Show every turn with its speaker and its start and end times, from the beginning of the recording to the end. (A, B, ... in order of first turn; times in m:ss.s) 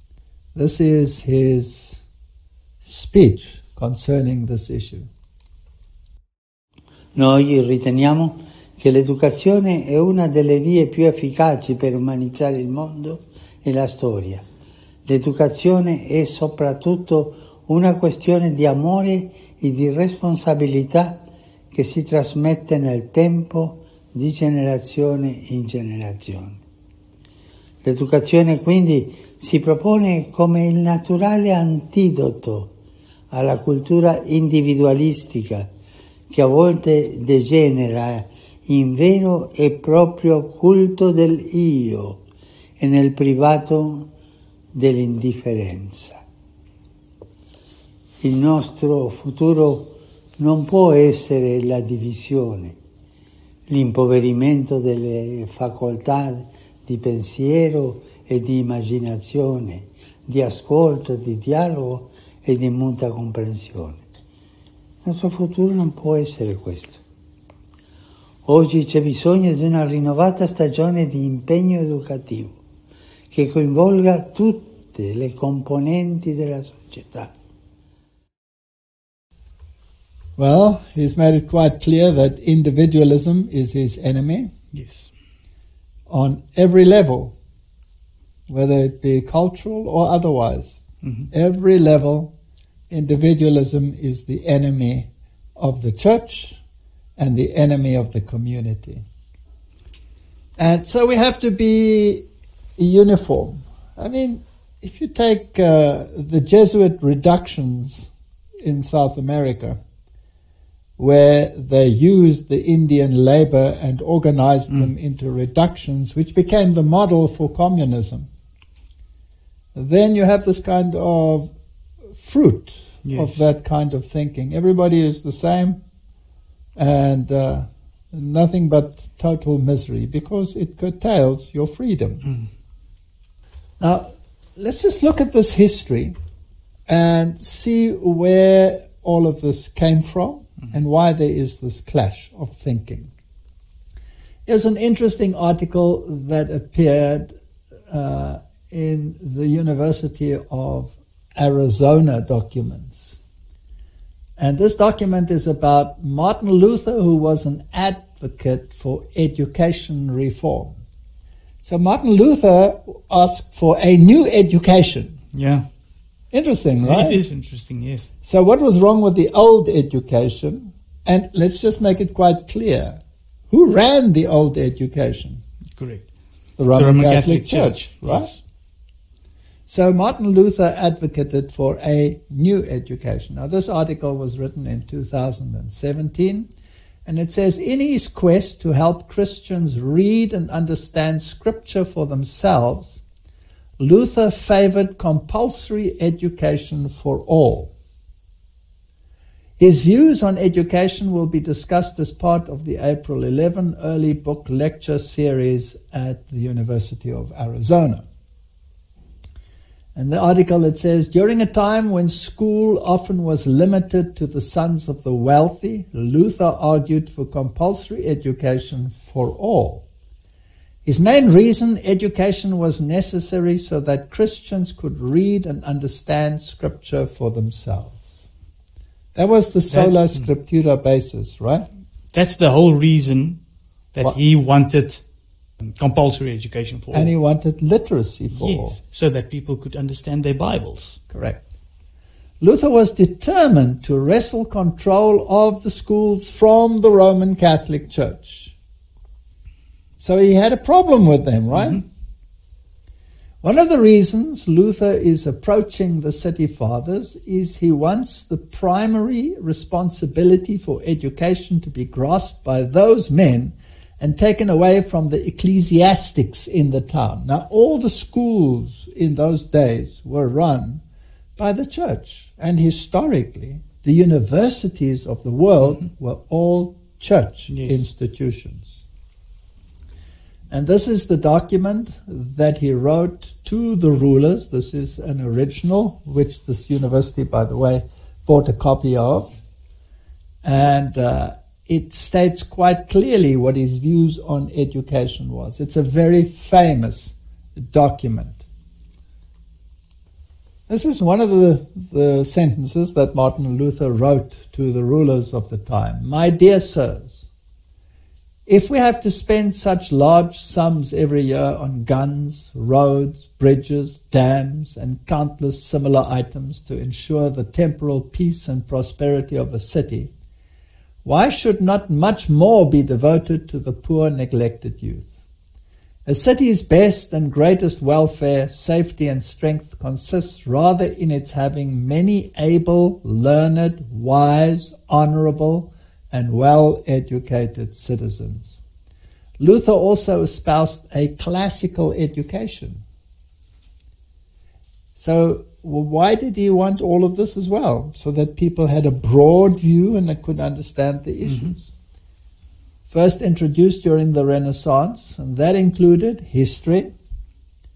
0:00.6-0:02.0 A
0:02.8-0:05.1 A
0:07.2-0:14.4 B
0:15.1-0:21.2 B
0:21.7-0:26.6 B
0:27.8-0:32.7 B
0:33.3-0:35.7 B
0:36.3-0:42.2 B
0:42.8-0:44.1 B
0:44.7-0:46.2 B
0:48.2-0:52.8 B
0:53.7-1:04.0 B
1:05.0-1:07.0 B
1:08.4-1:12.6 B
1:13.3-1:17.3 B
1:20.4-1:24.5 A
1:24.7-1:25.1 C
1:26.1-1:27.3 A
1:28.5-1:30.8 A
1:31.0-1:31.3 C
1:31.3-1:32.3 A
1:32.9-1:36.6 A
1:37.2-1:39.0 A
1:40.6-1:42.2 A
1:42.8-1:49.8 A
1:51.0-1:58.3 A
1:59.8-2:01.5 A
2:02.2-2:05.8 A
2:03.0-2:03.4 C
2:06.8-2:12.3 A
2:13.8-2:16.2 A
2:16.9-2:23.1 A
2:24.5-2:27.3 A
2:27.9-2:33.2 A
2:34.4-2:40.8 A
2:41.6-2:45.2 A
2:45.3-2:45.6 C
2:46.3-2:47.2 A
2:46.8-2:48.1 C
2:48.2-2:53.0 A
2:53.5-2:55.4 A
2:55.8-2:56.0 C
2:56.6-2:58.3 A
2:56.8-2:58.4 C
2:59.7-3:06.5 A
3:07.1-3:13.0 A
3:13.8-3:17.7 A
3:19.6-3:28.0 A
3:30.0-3:39.8 A
3:40.8-3:48.3 A
3:49.2-3:51.7 A
3:49.7-3:50.3 C
3:52.1-3:53.4 C
3:54.0-3:55.0 C
3:55.6-3:57.1 C
3:56.9-3:58.8 A
3:58.3-4:01.0 C
4:01.1-4:01.4 A
4:02.4-4:08.5 A
4:10.0-4:11.8 A
4:11.5-4:11.8 C
4:13.4-4:30.8 A
4:31.4-4:38.7 A
4:37.5-4:37.8 C
4:40.5-4:49.3 A
4:50.4-4:58.4 A
5:00.7-5:07.2 A
5:08.5-5:20.1 A
5:21.0-5:25.1 A
5:26.1-5:38.6 A
5:39.4-5:42.8 A
5:45.0-5:51.7 A
5:51.2-5:51.6 C
5:52.9-5:56.9 A